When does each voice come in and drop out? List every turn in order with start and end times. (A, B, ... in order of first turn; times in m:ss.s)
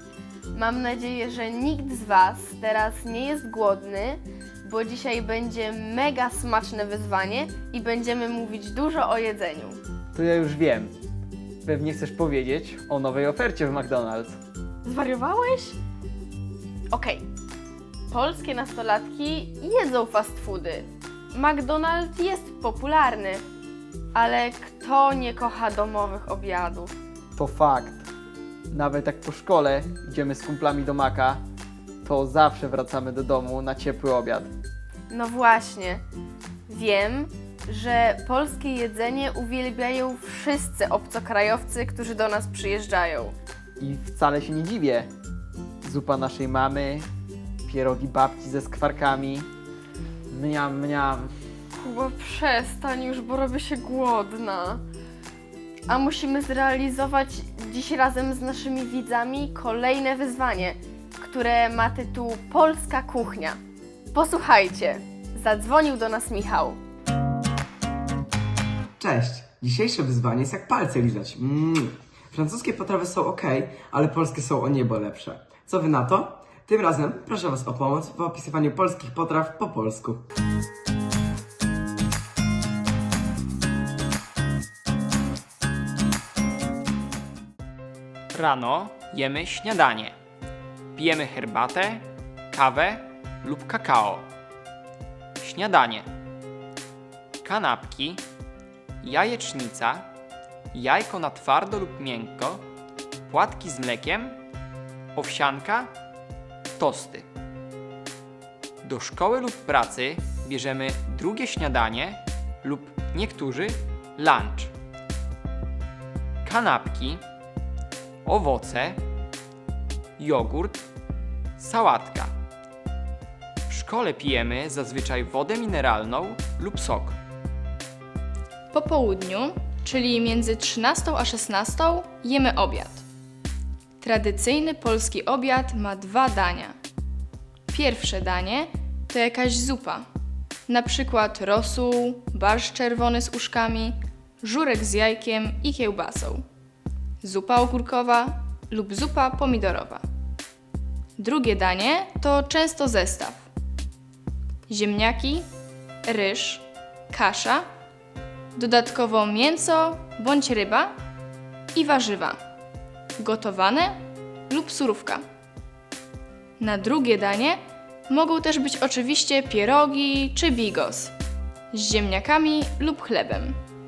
0:00.5-0:09.8 A
0:10.1-0:10.9 B
0:11.6-0:14.4 B
0:14.8-0:15.8 A
0:16.9-0:17.2 A
0:18.1-0:23.4 A
0:24.1-0:26.9 A
0:27.4-0:28.0 B
0:28.7-0:31.4 B
0:32.0-0:34.5 B
0:35.1-0:36.0 A
0:36.7-0:43.3 A
0:43.8-0:45.1 B
0:45.8-0:47.1 B
0:47.6-0:49.5 B
0:50.3-0:51.3 B
0:51.8-0:54.8 A
0:55.9-1:03.6 A
1:04.1-1:06.8 A
1:09.0-1:20.2 C
1:28.3-1:30.1 D
1:30.9-1:34.3 D
1:35.4-1:36.1 D
1:37.4-1:38.2 D
1:39.0-1:40.1 D
1:40.7-1:42.6 D
1:43.3-1:44.4 D
1:45.1-1:45.9 D
1:46.8-1:47.2 D
1:48.8-1:54.7 D
1:56.4-1:57.2 D
1:58.2-1:59.0 D
2:00.2-2:00.8 D
2:01.6-2:02.3 D
2:03.7-2:07.2 D
2:08.7-2:13.0 E
2:14.0-2:16.7 E
2:17.7-2:20.0 E
2:20.7-2:26.4 E
2:27.2-2:30.0 E
2:31.2-2:33.4 E
2:34.7-2:35.4 E
2:36.1-2:37.6 E
2:38.6-2:40.9 E
2:41.7-2:42.4 E
2:43.2-2:44.0 E
2:44.5-2:45.2 E
2:46.6-2:51.1 E
2:51.7-2:53.6 E